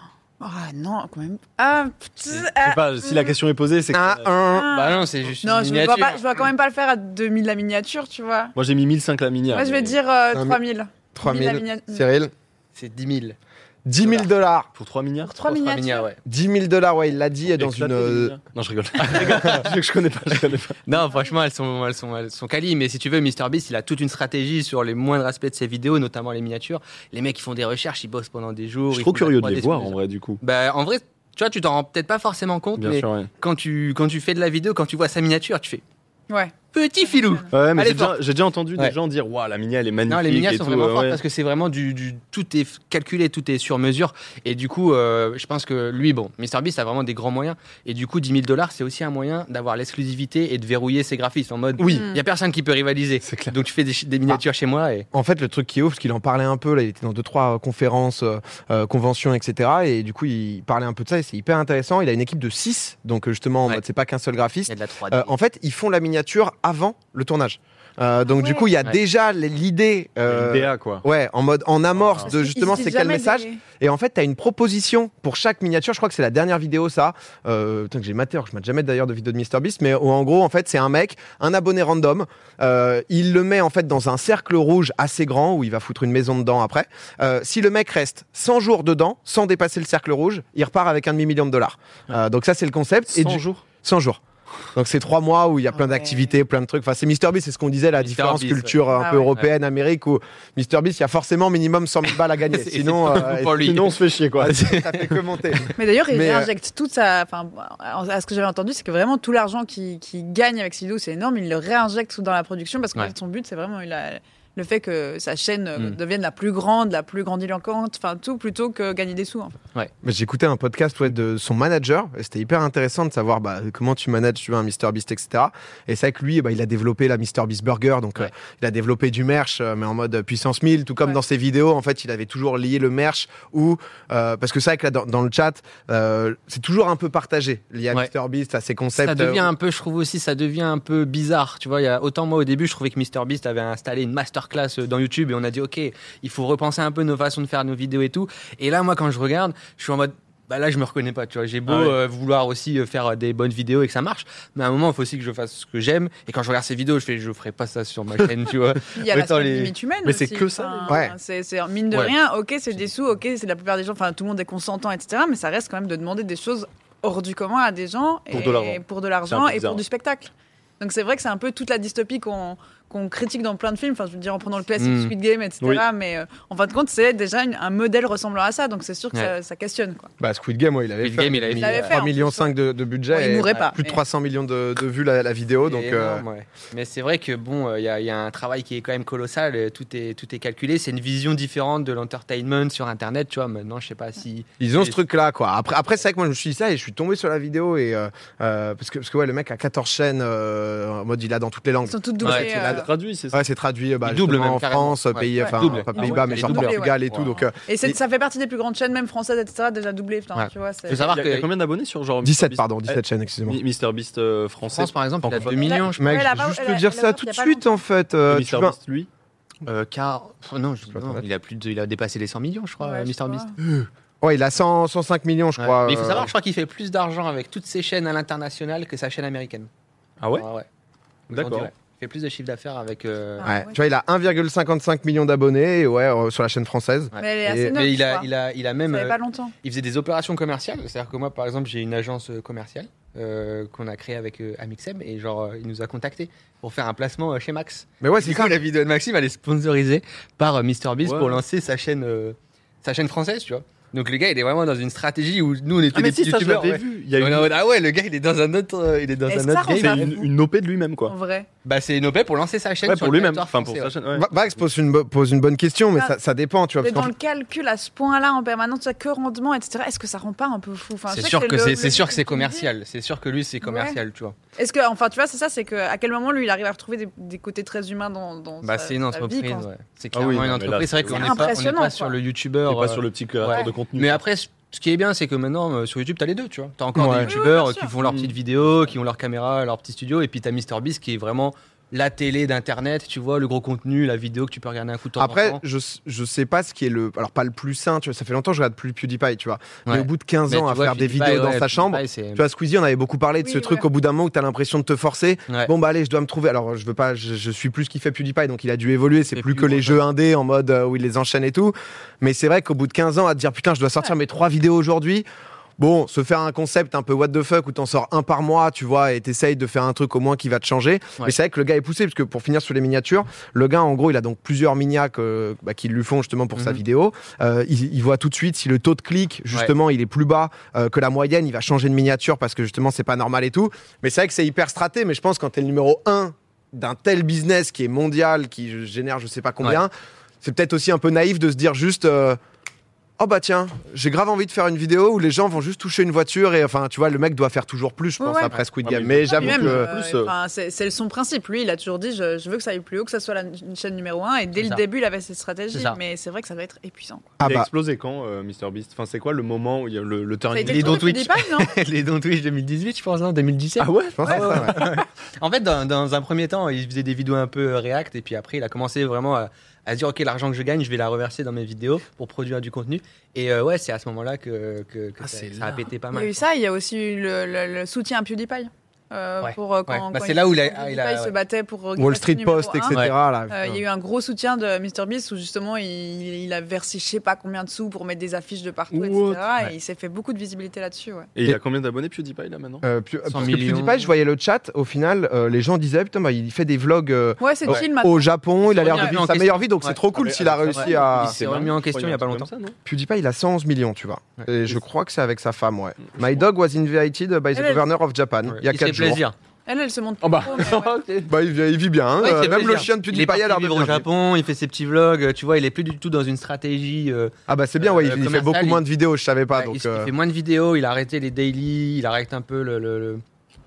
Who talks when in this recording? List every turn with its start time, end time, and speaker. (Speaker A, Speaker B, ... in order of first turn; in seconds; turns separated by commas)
Speaker A: 0.4-3.4, Speaker B: 2.3-4.3, Speaker C: 3.9-4.7, Speaker A: 4.4-8.5, Speaker D: 4.7-6.2, Speaker B: 8.6-10.0, Speaker A: 9.5-12.1, Speaker C: 10.3-10.6, Speaker C: 11.2-12.3, Speaker D: 12.7-13.4, Speaker C: 13.9-14.7, Speaker B: 14.8-15.4, Speaker A: 15.2-16.1, Speaker D: 15.4-16.2, Speaker C: 16.2-18.4, Speaker B: 17.5-20.8, Speaker D: 19.0-19.7, Speaker D: 20.9-35.8, Speaker B: 28.9-30.4, Speaker B: 32.8-33.3, Speaker A: 36.3-37.5, Speaker D: 36.7-38.2, Speaker B: 37.5-41.2, Speaker D: 40.1-55.1, Speaker B: 51.8-52.1, Speaker A: 51.8-52.2, Speaker B: 53.2-53.5, Speaker C: 55.1-94.2, Speaker D: 64.7-65.3, Speaker A: 68.3-68.7, Speaker B: 70.3-71.0, Speaker B: 72.0-72.3, Speaker A: 72.2-73.6, Speaker B: 93.1-93.6, Speaker C: 94.7-103.8, Speaker D: 98.0-98.8, Speaker A: 98.9-99.3, Speaker D: 102.5-105.7, Speaker B: 103.6-104.6, Speaker C: 104.4-106.5, Speaker A: 105.8-119.6, Speaker C: 120.0-139.5, Speaker D: 139.0-159.1, Speaker B: 151.7-152.0, Speaker A: 158.9-180.1, Speaker B: 159.1-161.0, Speaker C: 160.9-161.2, Speaker B: 168.3-169.8, Speaker D: 174.8-175.1, Speaker C: 180.2-186.2, Speaker D: 181.0-182.0, Speaker A: 181.6-182.6, Speaker A: 183.1-184.0, Speaker D: 185.6-195.0, Speaker C: 194.6-208.0, Speaker A: 201.8-202.9, Speaker D: 202.2-202.5, Speaker B: 202.2-203.4, Speaker D: 204.0-207.3, Speaker A: 205.4-206.9, Speaker B: 206.0-206.5, Speaker A: 207.6-211.1, Speaker D: 210.3-211.5, Speaker B: 210.9-215.7, Speaker C: 212.2-213.6, Speaker D: 214.6-216.3, Speaker A: 215.5-217.8, Speaker C: 215.9-218.8, Speaker B: 218.3-219.1, Speaker D: 219.7-223.5, Speaker C: 220.9-221.2, Speaker A: 222.8-223.5, Speaker C: 224.2-226.3, Speaker D: 225.6-229.7, Speaker B: 230.2-230.5, Speaker D: 230.4-230.7, Speaker B: 231.3-231.7, Speaker D: 231.3-233.6, Speaker A: 233.4-233.8, Speaker C: 233.4-237.8, Speaker D: 237.2-260.1, Speaker A: 237.2-238.3, Speaker A: 238.8-239.5, Speaker C: 248.0-248.6, Speaker B: 251.0-251.4, Speaker B: 255.9-257.5, Speaker A: 259.3-260.3, Speaker B: 259.6-261.1, Speaker A: 261.1-261.5, Speaker D: 261.6-263.9, Speaker B: 262.8-264.3, Speaker C: 264.1-267.1, Speaker A: 266.8-272.7, Speaker D: 271.1-274.4, Speaker A: 273.6-274.0, Speaker A: 274.6-279.7, Speaker D: 278.6-295.6, Speaker B: 280.1-281.6, Speaker A: 281.1-282.2, Speaker B: 282.7-284.2, Speaker A: 283.5-283.7, Speaker C: 286.9-287.3, Speaker A: 287.2-287.9, Speaker B: 288.0-288.3, Speaker C: 295.2-315.3, Speaker D: 299.9-302.4, Speaker A: 303.4-303.9, Speaker D: 309.3-310.0, Speaker C: 315.8-339.9, Speaker D: 326.6-326.8, Speaker C: 340.4-342.4, Speaker C: 343.2-349.9, Speaker A: 348.2-348.6, Speaker B: 348.7-350.3, Speaker A: 349.3-357.4, Speaker D: 354.6-354.8, Speaker D: 355.7-356.0, Speaker C: 357.4-357.7, Speaker B: 357.4-361.2, Speaker A: 360.5-361.7, Speaker D: 360.7-376.4, Speaker B: 363.8-364.9, Speaker C: 364.2-364.8, Speaker C: 375.2-375.8, Speaker A: 376.1-391.3, Speaker D: 379.4-381.4, Speaker C: 382.0-383.6, Speaker B: 388.9-389.6, Speaker B: 391.4-392.8, Speaker C: 392.8-401.4, Speaker D: 393.3-394.1, Speaker A: 397.4-399.2, Speaker D: 398.6-400.0, Speaker B: 400.1-402.8, Speaker D: 400.8-402.5, Speaker C: 402.9-409.2, Speaker A: 407.5-407.9, Speaker D: 408.5-409.4, Speaker A: 409.7-410.9, Speaker B: 410.2-411.3, Speaker C: 411.3-414.1, Speaker D: 412.2-418.8, Speaker C: 417.5-420.1, Speaker D: 419.5-423.2